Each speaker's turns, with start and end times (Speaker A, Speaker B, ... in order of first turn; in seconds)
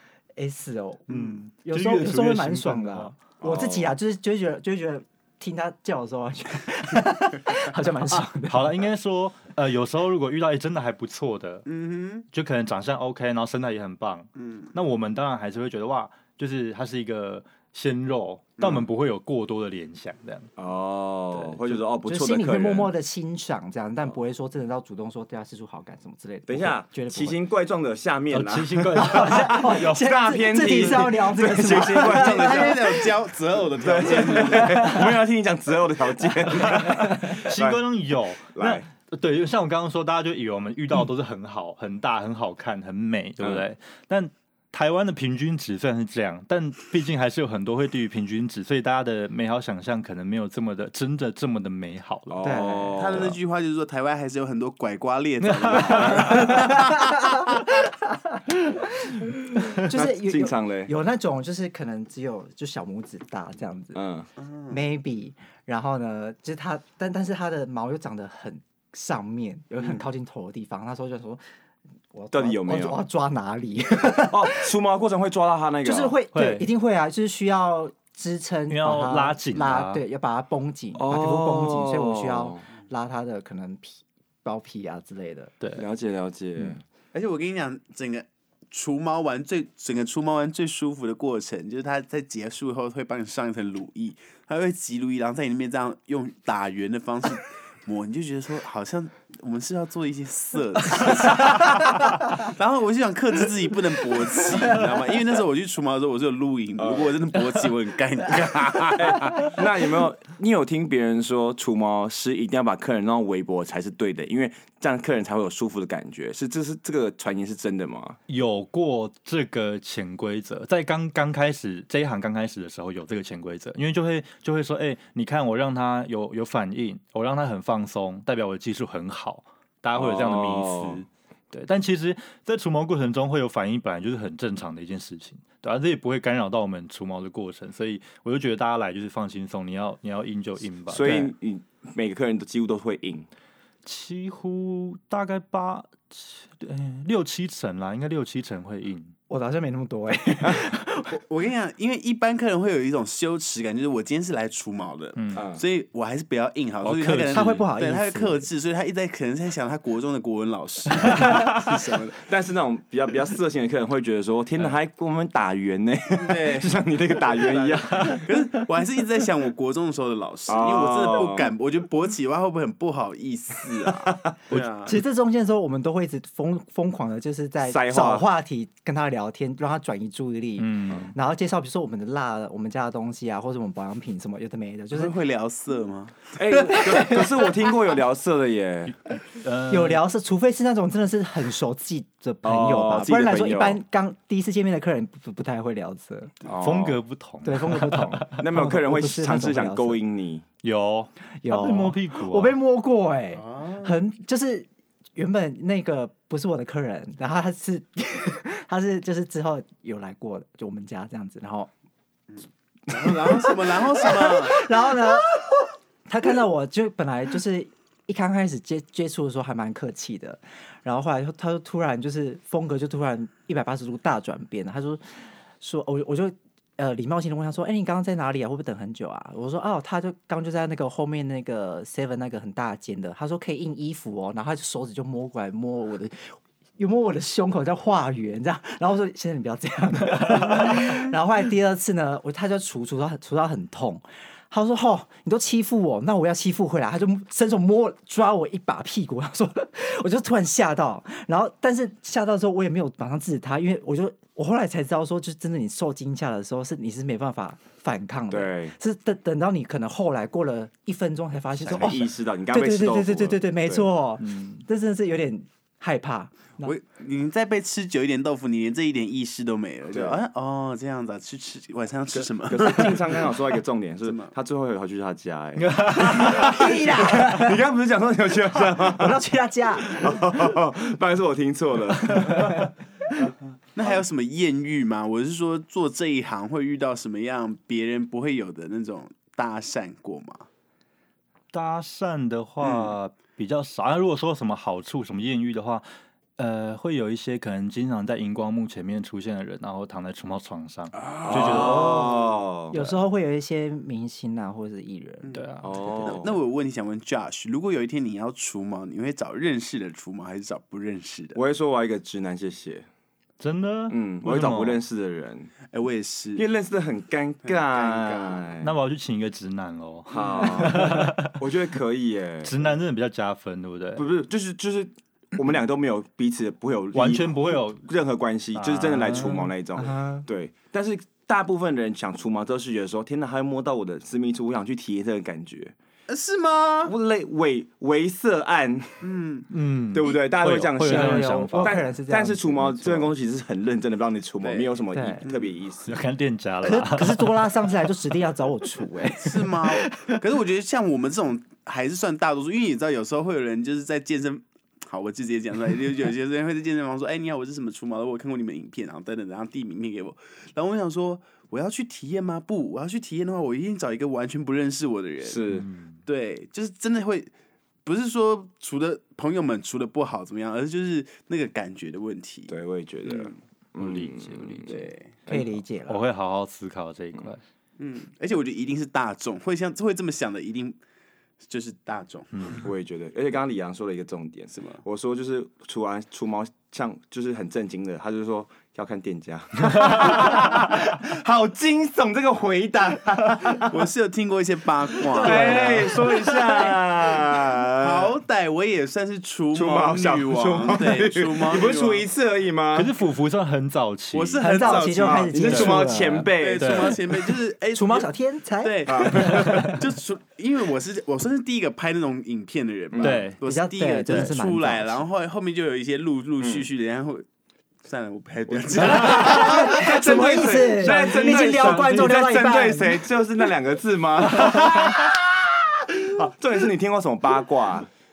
Speaker A: 0.4-8.8, 22.0-27.4, 29.0-33.1, 34.6-35.0, 52.4-53.1, 56.3-64.0, 64.7-71.4, 72.1-74.7, 75.8-85.5, 149.3-151.2, 157.3-158.5, 174.8-185.1, 186.7-187.5, 189.7-196.3, 197.4-200.0, 201.4-211.7, 213.0-266.8, 276.2-277.6, 278.9-280.2, 282.3-282.6, 302.7-305.3, 329.8-330.3, 340.8-343.1, 344.9-345.2, 346.6-350.2, 375.3-376.0, 404.4-406.3, 407.7-409.8, 413.4-415.0, 418.9-423.0
Speaker B: 1.1-1.4, 11.7-12.3, 14.4-14.7, 18.6-18.9, 31.9-35.0, 53.0-56.9, 64.4-64.8, 87.1-109.5, 151.1-162.2, 166.2-175.0, 184.9-186.4, 203.3-204.0, 212.3-214.7, 266.6-273.4, 274.0-274.3, 283.8-290.5, 292.6-292.9, 301.1-301.8, 305.2-311.4, 315.7-316.4, 317.4-318.5, 336.1-336.9, 339.0-339.5, 344.4-344.7, 345.2-345.5, 349.2-365.4, 366.1-367.3, 367.9-373.4, 374.7-375.1, 377.8-380.8, 381.4-382.6, 384.5-384.8, 393.7-397.2, 397.8-402.1, 404.1-405.6, 406.4-408.1, 408.6-417.2, 417.8-420.0
Speaker C: 1.1-3.2, 8.4-11.7, 12.3-20.5, 21.5-21.8, 28.3-30.0, 30.6-31.0, 36.6-52.4, 55.4-56.7, 76.3-76.7, 78.7-80.0, 85.6-85.9, 118.3-141.3, 143.8-149.1, 155.2-155.4, 156.8-157.7, 180.6-181.1, 189.2-190.0, 196.6-198.3, 200.6-202.5, 264.2-264.6, 275.6-276.6, 291.5-295.9, 296.4-302.1, 302.7-303.0, 305.3-305.7, 313.4-314.8, 318.6-321.4, 322.4-324.0, 326.9-327.9, 328.5-329.5, 339.5-341.9, 345.9-347.4, 365.5-366.0, 373.8-377.4, 382.4-382.6, 395.2-395.8, 402.7-404.7, 405.4-405.9, 406.6-407.0, 413.0-413.4, 420.8-422.1
Speaker D: 3.4-3.9, 20.6-22.9, 26.5-33.0, 33.8-37.8, 38.5-38.9, 43.4-43.6, 52.3-53.4, 59.8-60.9, 63.9-64.3, 72.3-73.0, 74.3-76.2, 80.9-82.6, 85.8-86.8, 106.8-107.2, 108.9-118.2, 129.9-131.0, 140.9-143.3, 155.3-155.6, 162.2-168.3, 170.5-171.5, 173.9-174.2, 177.6-178.2, 186.4-188.9, 192.4-193.8, 196.4-197.0, 198.3-200.4, 258.3-258.8, 261.6-263.9, 269.9-270.2, 272.1-279.2, 279.8-282.7, 301.2-302.8, 305.6-306.4, 311.4-312.9, 313.9-315.5, 316.4-318.7, 320.1-322.7, 324.0-335.7, 336.8-339.0, 339.9-345.9, 365.2-365.7, 372.5-374.8, 382.6-393.9, 395.1-398.1, 399.5-402.9, 404.7-407.0, 408.9-409.8, 412.9-413.2, 416.4-416.7, 418.5-427.9